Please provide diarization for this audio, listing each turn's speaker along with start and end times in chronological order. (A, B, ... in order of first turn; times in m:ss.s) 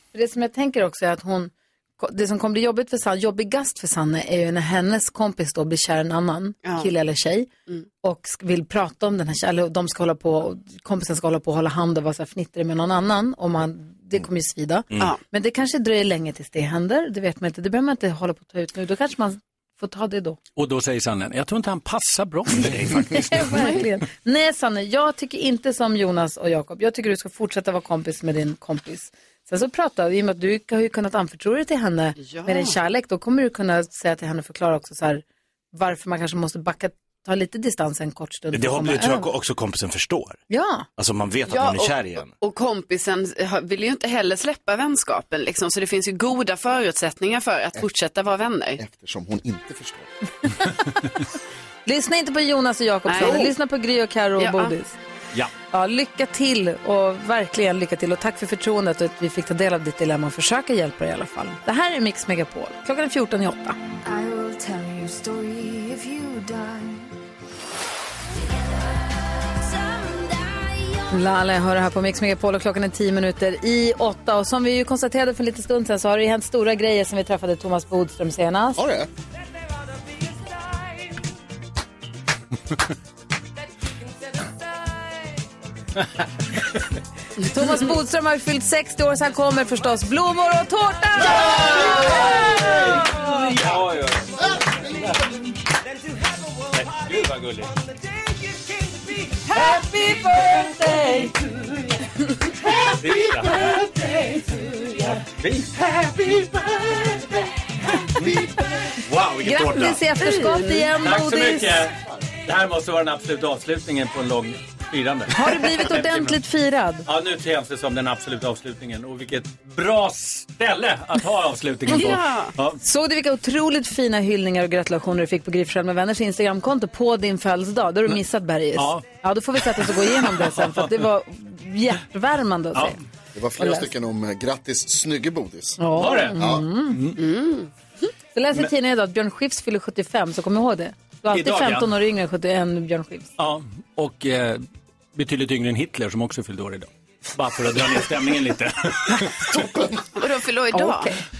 0:00.1-0:07.5 A
0:08.0-0:20.4 A
0:20.6-0:23.9 B
0:23.1-0:39.3 A
0:32.2-0:32.8 C
0:38.5-0:40.4 D
0:40.5-0:40.9 A
0:41.0-0:42.3 D
0:41.5-0:48.8 C
0:48.8-0:50.1 E
0:51.9-0:55.0 A
0:53.1-0:53.5 C
0:54.4-0:54.7 C
0:55.7-1:03.8 A
1:04.0-1:07.1 F
1:08.4-1:11.0 F
1:11.1-1:18.8 A
1:18.8-1:19.1 E
1:27.4-1:32.8 A
1:31.3-1:35.3 B
1:36.7-1:37.7 B
1:39.5-1:41.3 A
1:42.8-1:47.3 B
1:48.2-1:48.5 B
1:49.1-1:50.0 B
1:49.4-1:51.8 A
1:50.2-1:50.9 C
1:51.0-1:56.4 B
1:55.3-1:57.0 A
1:57.1-2:02.8 B
2:01.9-2:02.5 C
2:02.8-2:13.0 A
2:08.8-2:09.0 B
2:09.6-2:10.9 B
2:13.3-2:15.8 E
2:13.6-2:13.9 A
2:15.8-2:17.0 A
2:16.0-2:17.2 B
2:16.4-2:16.6 E
2:17.2-2:17.7 C
2:18.4-2:23.3 A
2:21.3-2:21.9 B
2:23.4-2:29.5 B
2:29.5-2:29.8 E
2:30.2-2:31.1 C
2:30.7-2:31.2 A